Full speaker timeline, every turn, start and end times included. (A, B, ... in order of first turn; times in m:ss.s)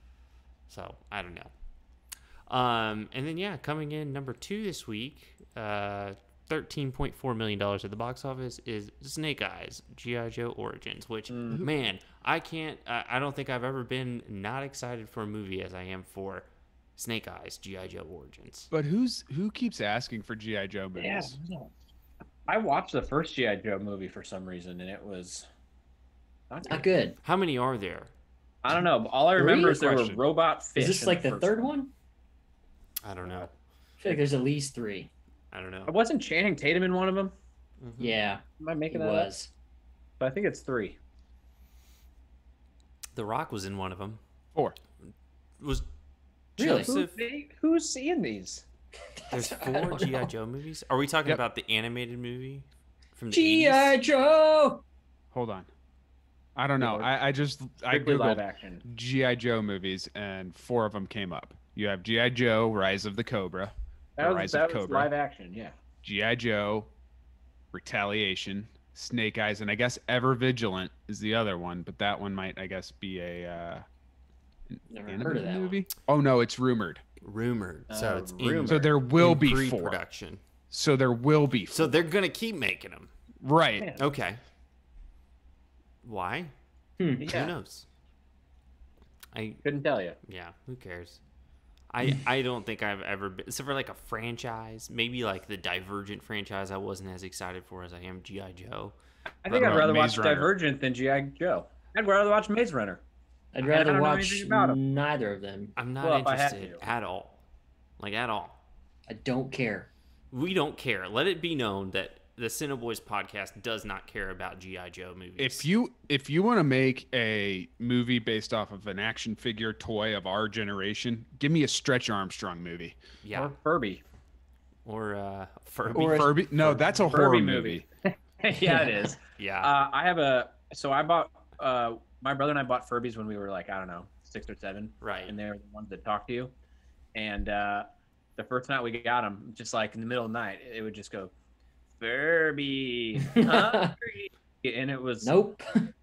0:00.7-0:01.5 A
0:02.5-0:18.7 A
0:11.3-0:11.6 B
0:18.7-0:21.4 C
0:21.0-0:21.7 B
0:22.5-0:25.5 B
0:26.5-0:26.9 B
0:26.6-0:27.2 D
0:27.2-0:28.1 A
0:28.6-0:31.7 B
0:29.4-0:29.8 D
0:29.4-0:30.2 C
0:30.8-0:31.9 D
0:33.0-0:33.5 A
0:33.2-0:33.5 B
0:34.0-0:35.1 D
0:35.5-0:35.9 A
0:35.9-0:37.3 B
0:37.8-0:38.2 A
0:38.0-0:39.5 D
0:38.6-0:39.3 B
0:40.2-0:41.0 B
0:43.1-0:44.2 A
0:45.6-0:45.8 A
0:46.6-0:47.1 A
0:46.6-0:46.9 D
0:46.8-0:48.6 B
0:49.2-0:50.3 D
0:49.3-0:54.0 A
0:53.3-0:54.8 D
0:55.3-0:55.7 C
0:56.6-1:05.1 C
0:56.8-0:57.1 B
0:57.9-0:58.8 B
1:04.2-1:05.8 B
1:06.0-1:06.9 C
1:07.7-1:13.8 C
1:14.7-1:17.0 C
1:14.9-1:15.8 D
1:17.2-1:20.4 A
1:17.9-1:18.9 B
1:18.6-1:20.0 C
1:20.7-1:22.0 C
1:21.7-1:23.1 A
1:23.4-1:23.9 C
1:24.0-1:24.4 A
1:26.0-1:26.5 A
1:27.2-1:27.5 B
1:27.2-1:27.8 A
1:29.3-1:29.6 A
1:29.6-1:30.2 B
1:30.2-1:31.2 A
1:31.9-1:38.9 A
1:39.4-1:43.0 B
1:39.5-1:40.0 A
1:39.6-1:40.5 C
1:43.5-1:45.7 D
1:43.6-1:44.8 B
1:45.8-1:47.4 A
1:46.0-1:46.8 B
1:48.0-1:48.6 A
1:49.1-1:49.9 D
1:50.3-1:55.6 A
1:55.4-2:03.0 C
2:03.2-2:03.5 A
2:03.3-2:04.0 B
2:04.8-2:07.3 A
2:05.9-2:07.8 C
2:06.0-2:06.3 D
2:07.1-2:16.5 B
2:08.6-2:09.1 D
2:09.4-2:09.7 A
2:15.0-2:15.3 A
2:17.1-2:21.3 B
2:22.0-2:25.3 B
2:23.2-2:23.9 D
2:25.2-2:25.9 D